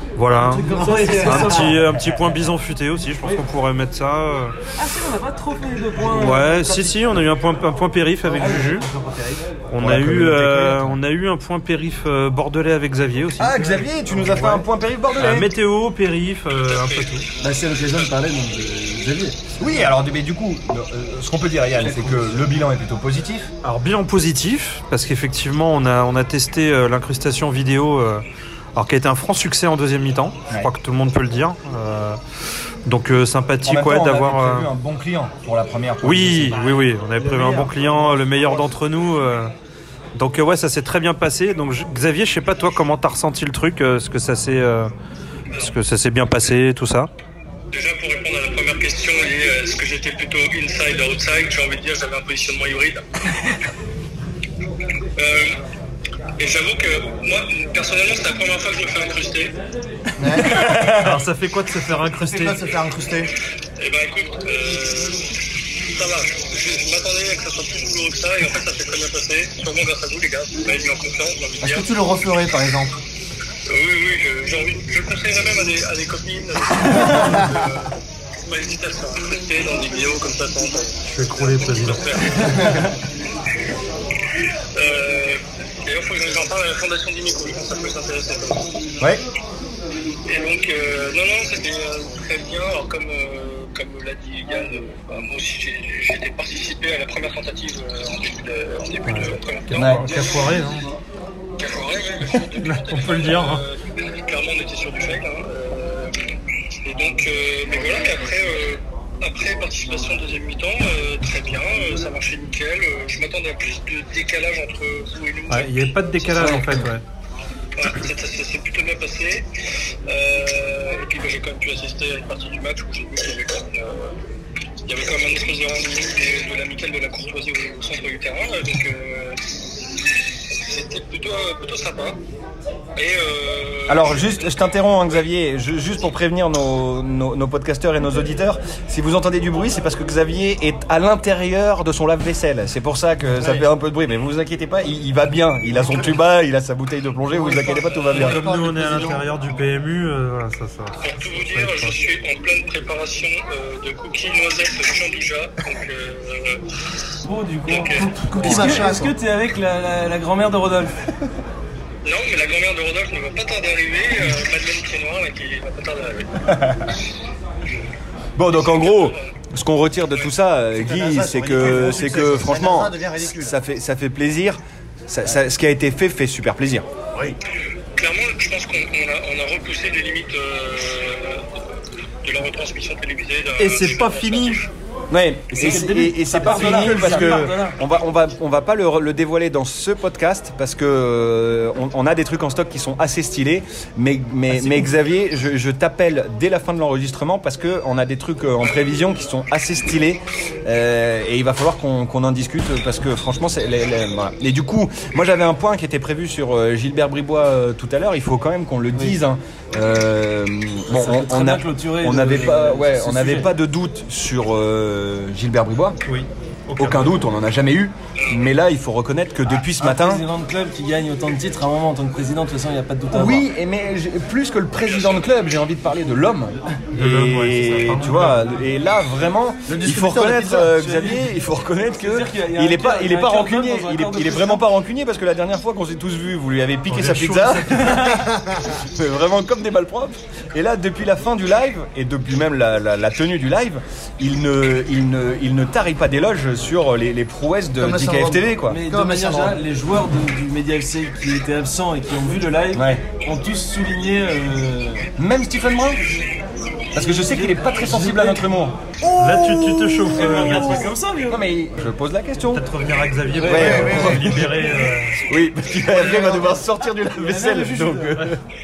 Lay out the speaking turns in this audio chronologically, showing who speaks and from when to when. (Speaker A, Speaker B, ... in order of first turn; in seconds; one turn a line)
Speaker A: 0.1-0.7
Speaker B: 0.3-1.8
Speaker C: 0.5-1.7
Speaker A: 1.2-4.5
Speaker D: 1.9-2.2
Speaker B: 4.8-6.8
Speaker A: 6.1-8.9
Speaker C: 6.1-7.2
Speaker C: 8.3-9.4
Speaker B: 8.4-8.8
Speaker A: 9.7-17.3
Speaker D: 9.8-10.9
Speaker D: 13.4-15.5
Speaker E: 16.5-17.2
Speaker B: 17.4-19.6
Speaker D: 19.6-23.5
Speaker B: 21.8-22.4
Speaker A: 23.6-28.2
Speaker A: 28.8-32.2
Speaker A: 32.9-34.7
Speaker D: 33.6-36.6
Speaker A: 36.0-39.5
Speaker B: 36.7-38.7
Speaker A: 40.1-44.9
Speaker A: 45.5-47.1
Speaker E: 47.7-53.0
Speaker E: 55.2-55.6
Speaker E: 56.4-59.5
Speaker C: 60.2-61.1
Speaker A: 60.5-62.6
Speaker C: 62.1-63.3
Speaker E: 63.8-65.3
Speaker E: 65.8-71.9
Speaker C: 71.6-73.0
Speaker E: 73.7-77.9
Speaker E: 78.5-82.8
Speaker A: 81.0-82.7
Speaker E: 84.7-88.7
Speaker E: 90.2-100.0
Speaker A: 99.0-100.9
Speaker D: 99.7-100.5
Speaker E: 101.6-106.1
Speaker A: 102.6-103.6
Speaker E: 106.8-115.7
Speaker A: 115.5-117.0
Speaker B: 116.4-116.6
Speaker E: 117.8-119.5
Speaker E: 120.1-124.1
Speaker E: 124.8-132.2
Speaker E: 132.9-134.5
Speaker D: 133.9-148.4
Speaker C: 143.4-143.6
Speaker C: 145.7-146.1
Speaker C: 147.3-149.2
Speaker A: 148.1-151.9
Speaker E: 151.0-156.6
Speaker B: 157.2-161.1
Speaker E: 157.7-158.0
Speaker C: 157.9-159.1
Speaker E: 162.0-166.4
Speaker D: 166.5-166.8
Speaker D: 168.3-176.9
Speaker E: 168.5-169.3
Speaker C: 170.7-173.6
Speaker E: 177.9-181.6
Speaker E: 182.2-184.7
Speaker A: 183.6-184.6
Speaker D: 185.1-216.0
Speaker B: 185.5-187.8
Speaker A: 186.4-187.5
Speaker B: 194.5-194.9
Speaker B: 210.9-213.5
Speaker A: 216.0-217.2
Speaker D: 216.8-220.2
Speaker E: 218.2-218.5
Speaker B: 219.6-223.5
Speaker D: 223.1-248.8
Speaker E: 224.8-225.4
Speaker A: 226.9-228.6
Speaker C: 229.7-230.7
Speaker B: 230.7-234.6
Speaker A: 236.9-238.2
Speaker C: 238.1-238.6
Speaker C: 247.8-249.6
Speaker B: 248.7-255.1
Speaker D: 252.7-253.0
Speaker D: 255.2-256.1
Speaker D: 256.9-262.6
Speaker B: 257.0-258.4
Speaker A: 259.2-260.9
Speaker B: 259.4-261.4
Speaker A: 262.5-265.2
Speaker B: 263.3-264.4
Speaker D: 263.4-264.6
Speaker C: 263.5-264.6
Speaker D: 265.2-268.4
Speaker B: 265.9-268.3